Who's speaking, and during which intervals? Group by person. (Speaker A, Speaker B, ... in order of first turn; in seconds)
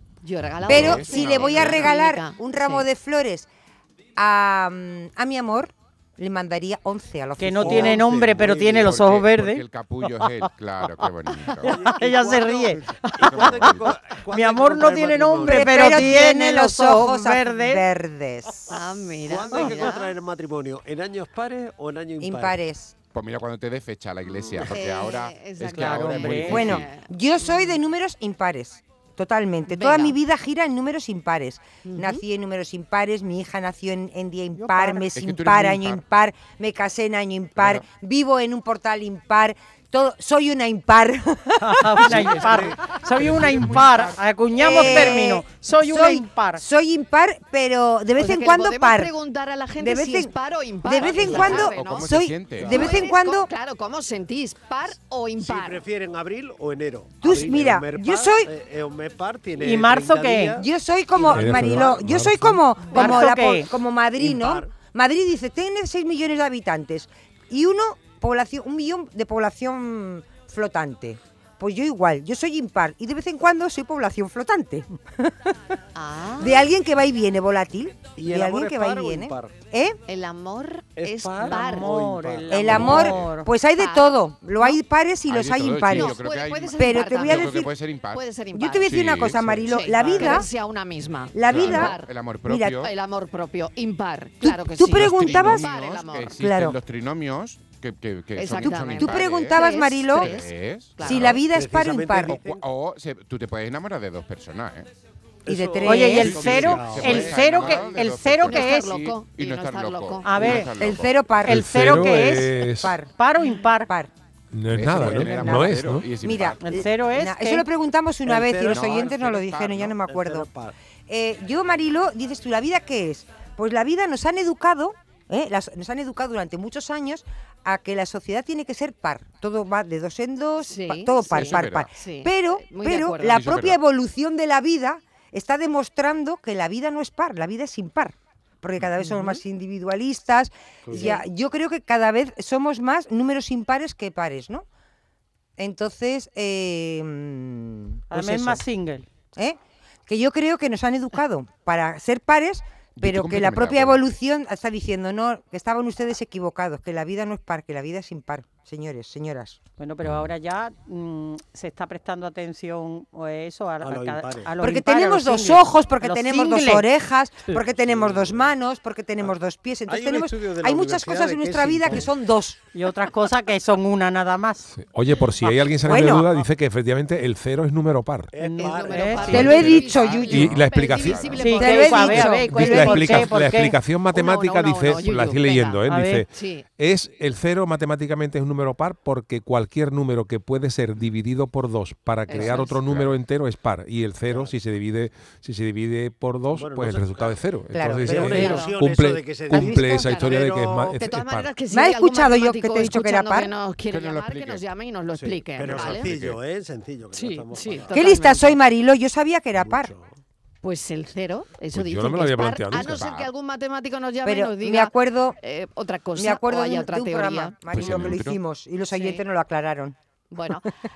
Speaker A: 0.2-2.9, 18.7-20.1, 24.7-27.1, 29.7-30.1, 31.9-32.2, 48.2-52.1, 52.7-55.8, 76.0-76.7, 80.1-81.9, 83.8-84.8, 85.8-89.0, 89.5-92.1, 92.8-96.4, 98.4-101.4, 108.4-110.4, 130.6-133.4, 178.6-182.3, 184.1-185.8, 186.3-186.7, 192.3-192.8, 198.2-198.7, 199.5-206.1, 207.1-208.6, 210.6-217.6, 218.9-219.2, 220.3-220.6
Speaker B: 0.7-1.9, 8.8-11.8, 13.3-13.9, 23.1-27.0, 35.1-36.0, 37.6-37.9, 43.1-45.0, 51.4-52.8, 85.3-88.2, 88.8-89.5, 91.5-92.9, 94.9-101.5, 102.3-104.9, 106.2-111.2, 114.7-116.8, 118.7-120.0, 131.3-131.9, 133.3-133.8, 153.0-154.0, 179.9-181.5, 192.6-193.2, 203.9-204.6, 205.7-206.4, 212.7-213.3, 217.7-218.4
Speaker C: 0.7-3.5, 4.2-8.1, 15.4-18.7, 22.2-22.9, 26.5-42.3, 44.6-49.1, 49.8-50.3, 50.9-53.5, 57.2-58.5, 60.6-75.3, 76.4-80.0, 82.5-86.2, 86.8-87.7, 88.5-90.5, 91.3-91.9, 92.5-92.8, 94.4-95.7, 96.4-96.8, 98.6-100.3, 101.0-102.4, 105.5-106.4, 110.8-113.1, 115.0-120.5, 121.1-144.7, 145.6-148.6, 149.3-159.6, 164.6-172.6, 175.8-176.3, 179.3-180.4, 181.5-183.3, 197.7-198.6, 201.7-203.5, 207.9-209.9, 214.2-215.4, 216.2-219.9
Speaker D: 7.4-10.5, 11.5-17.8, 25.7-26.8, 41.6-46.6, 59.6-60.6, 62.9-63.7, 81.4-83.5, 90.0-90.4, 105.8-109.0, 110.2-110.7, 111.4-112.6, 113.2-113.9, 116.6-117.7, 148.1-149.1, 159.8-166.9, 172.7-174.7, 178.4-179.6, 181.4-183.8, 185.9-186.2
Speaker E: 7.6-9.1, 11.6-16.1, 19.2-22.6, 42.0-43.0, 52.6-53.0, 55.4-60.6, 61.3-62.0, 64.2-64.8, 78.2-79.6, 81.0-83.3, 101.5-102.7, 105.5-107.8, 118.2-119.3, 120.1-120.8, 140.9-141.2, 163.8-164.6, 167.5-168.5, 169.9-172.1, 178.3-180.0, 194.3-194.5, 196.5-200.9, 205.2-208.4, 209.6-210.1
Speaker F: 61.3-62.6, 111.5-113.0, 114.5-116.1, 174.8-178.3, 180.3-201.5, 211.7-213.1